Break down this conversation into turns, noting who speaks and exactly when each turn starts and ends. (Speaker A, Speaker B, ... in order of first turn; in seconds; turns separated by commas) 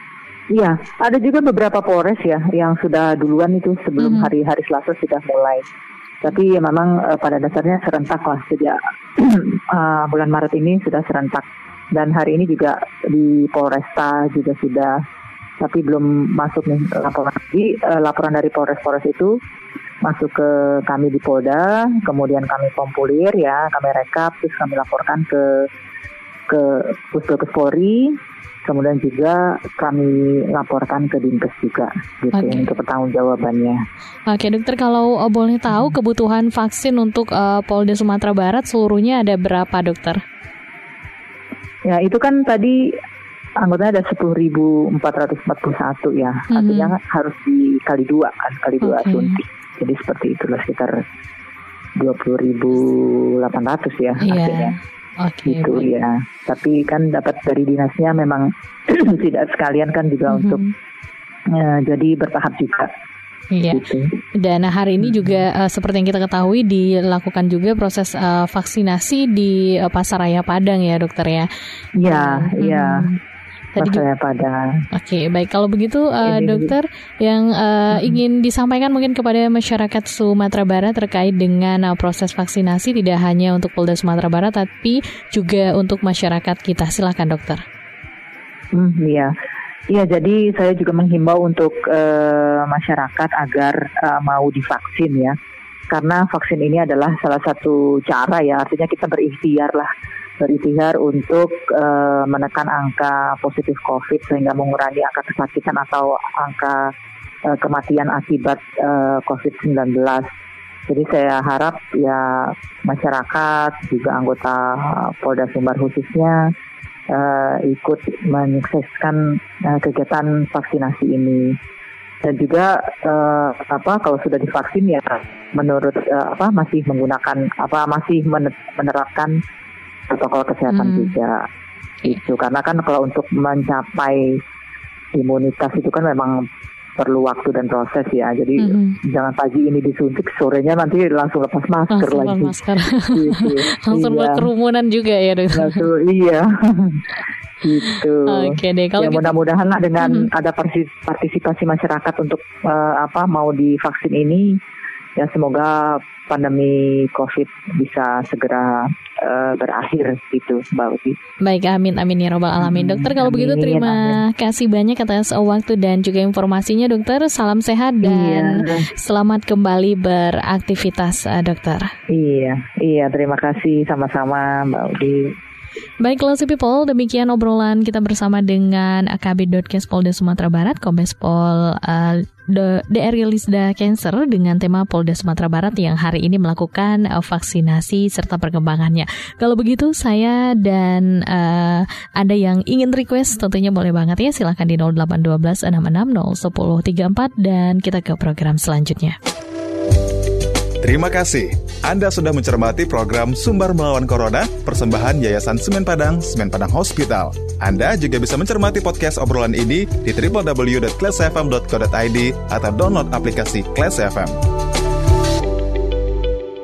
Speaker A: 0.5-5.7, Speaker B: 4.0-4.3, Speaker A: 6.2-15.0, Speaker A: 15.6-19.4, Speaker A: 20.0-25.7, Speaker A: 26.5-33.8, Speaker B: 32.3-32.7, Speaker B: 34.3-40.2, Speaker A: 41.9-43.0, Speaker A: 43.6-51.0, Speaker B: 46.5-46.9, Speaker B: 48.8-49.4, Speaker A: 52.0-54.7, Speaker B: 54.2-55.9, Speaker A: 55.5-60.6, Speaker B: 60.3-60.7, Speaker A: 61.5-62.9, Speaker B: 63.5-63.8, Speaker A: 63.7-64.2, Speaker B: 64.4-71.5, Speaker A: 65.0-65.4, Speaker A: 72.0-73.1, Speaker B: 72.0-73.2, Speaker B: 73.8-74.0, Speaker A: 73.8-74.8, Speaker B: 74.9-87.6, Speaker A: 76.2-76.7, Speaker A: 77.9-78.2, Speaker A: 88.7-89.3, Speaker A: 89.9-95.4, Speaker A: 95.9-99.9, Speaker A: 100.4-106.9, Speaker A: 107.5-110.3, Speaker A: 110.9-116.5, Speaker A: 117.1-121.5, Speaker A: 122.2-129.4, Speaker A: 130.1-131.4, Speaker B: 130.7-131.1, Speaker A: 132.0-134.4, Speaker A: 135.1-136.5, Speaker A: 137.0-144.5, Speaker B: 138.6-139.0, Speaker B: 141.9-145.8, Speaker A: 145.5-147.1, Speaker A: 147.6-154.6, Speaker B: 148.3-149.3, Speaker B: 150.0-150.3, Speaker A: 155.2-161.2, Speaker B: 161.4-171.9, Speaker A: 162.6-164.2, Speaker A: 168.0-168.9, Speaker A: 172.1-175.3, Speaker B: 176.0-199.2, Speaker C: 200.8-214.4